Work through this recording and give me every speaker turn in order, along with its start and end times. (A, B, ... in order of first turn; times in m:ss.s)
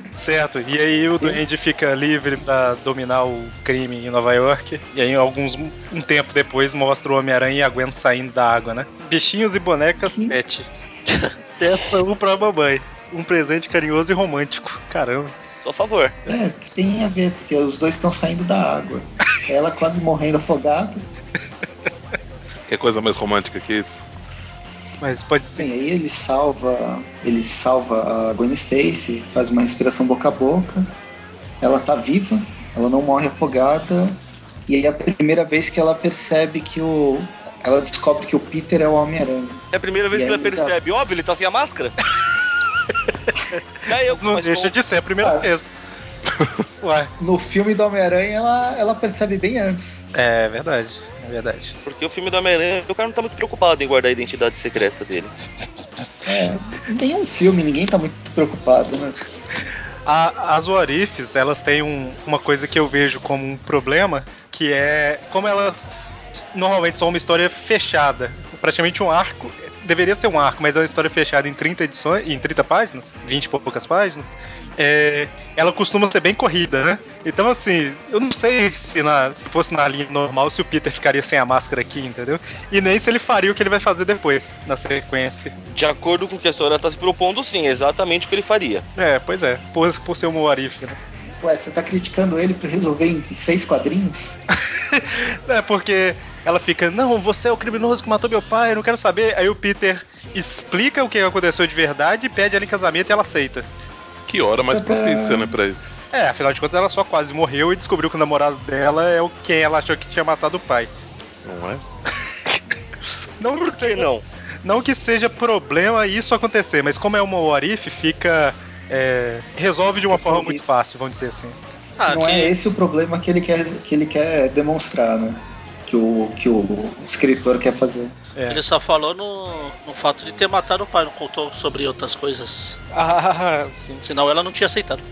0:00.2-0:10.7 A
0:10.0-0:10.4 B
0:11.6-0:15.3 A
0:15.6-0:16.2 C
0:16.3-0:21.0 B
0:22.7-0:24.0 D
0:25.0-0:25.7 A
0:25.6-0:30.9 B
0:31.6-0:40.8 B
0:39.7-0:42.0 C
0:43.2-0:45.7 A
0:43.9-0:44.8 C
0:45.2-0:45.5 B
0:46.8-0:47.1 A
0:47.2-0:50.0 B
0:50.2-0:51.8 A
0:51.9-0:55.3 C
0:56.3-0:59.2 B
1:00.1-1:25.5 A
1:25.7-1:28.8 C
1:29.0-1:31.0 A
1:31.4-1:34.4 B
1:34.9-1:43.7 A
1:44.3-1:45.9 D
1:44.7-1:45.6 B
1:46.1-1:50.9 A
1:51.4-1:51.8 D
1:53.4-1:54.1 A
1:53.6-1:54.2 C
1:54.6-2:01.6 A
2:00.1-2:00.6 B
2:02.0-2:02.5 E
2:02.1-2:08.1 B
2:08.4-2:08.6 A
2:08.5-2:12.8 E
2:12.9-2:14.0 A
2:14.0-2:15.0 E